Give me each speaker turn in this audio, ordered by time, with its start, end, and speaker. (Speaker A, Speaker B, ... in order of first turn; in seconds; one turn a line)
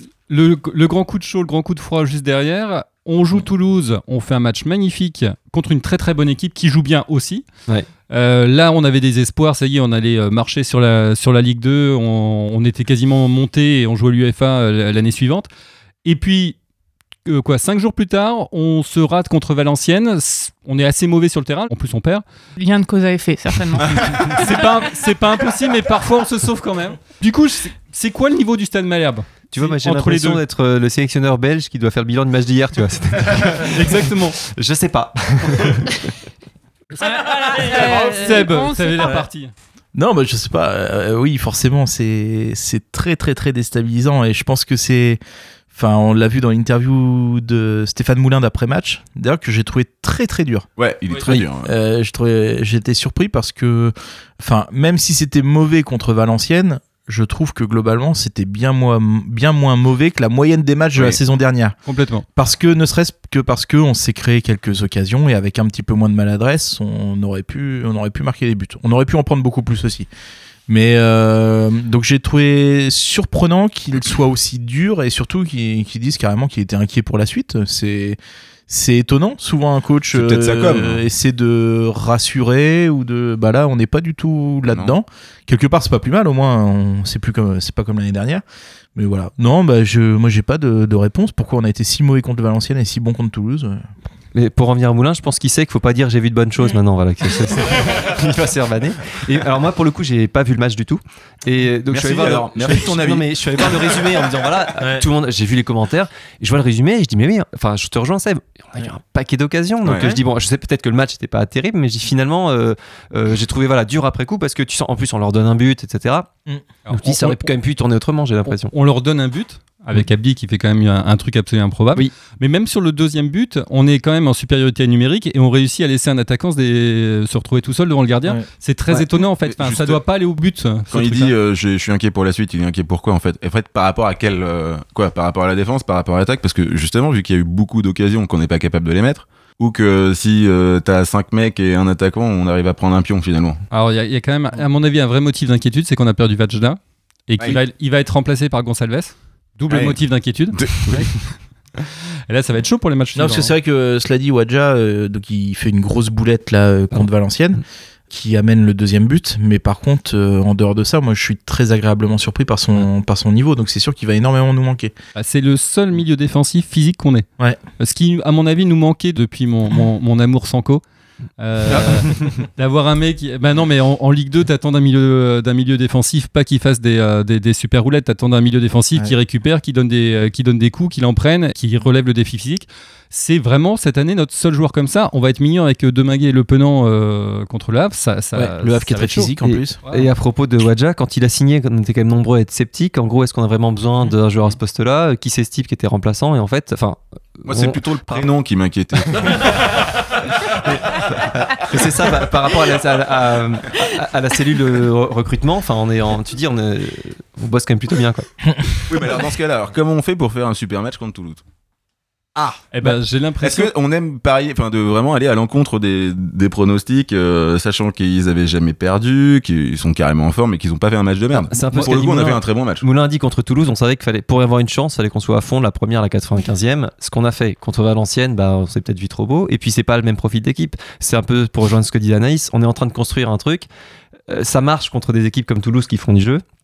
Speaker A: 0.3-7.5
Speaker A: 8.1-15.5
Speaker A: 16.1-16.6
Speaker A: 17.3-22.2
Speaker B: 22.6-24.5
Speaker A: 24.2-30.4
Speaker C: 29.5-36.0
Speaker A: 33.7-34.4
Speaker A: 36.9-39.5
Speaker B: 37.0-39.2
Speaker D: 40.0-45.2
Speaker D: 45.7-61.8
Speaker E: 50.8-51.7
Speaker A: 61.9-62.2
Speaker D: 62.4-70.1
Speaker D: 70.7-88.4
Speaker E: 80.1-81.0
Speaker E: 84.7-84.9
Speaker D: 89.0-93.8
Speaker C: 94.3-116.3
Speaker E: 101.9-104.2
Speaker E: 109.8-110.2
Speaker A: 116.9-117.2
Speaker C: 116.9-118.7
Speaker A: 118.6-131.3
Speaker E: 129.5-130.0
Speaker E: 130.9-143.6
Speaker A: 143.7-151.1
Speaker E: 149.7-150.0
Speaker E: 150.5-151.1
Speaker A: 152.3-153.5
Speaker D: 153.2-164.9
Speaker A: 165.2-167.3
Speaker A: 167.8-170.8
Speaker A: 171.4-190.1
Speaker D: 188.3-189.8
Speaker C: 189.4-198.2
Speaker E: 197.5-199.8
Speaker E: 200.9-201.7
Speaker C: 201.6-208.3
Speaker E: 208.9-211.4
Speaker A: 212.7-213.7
Speaker E: 213.4-222.9
Speaker C: 221.3-233.7
Speaker C: 234.3-236.4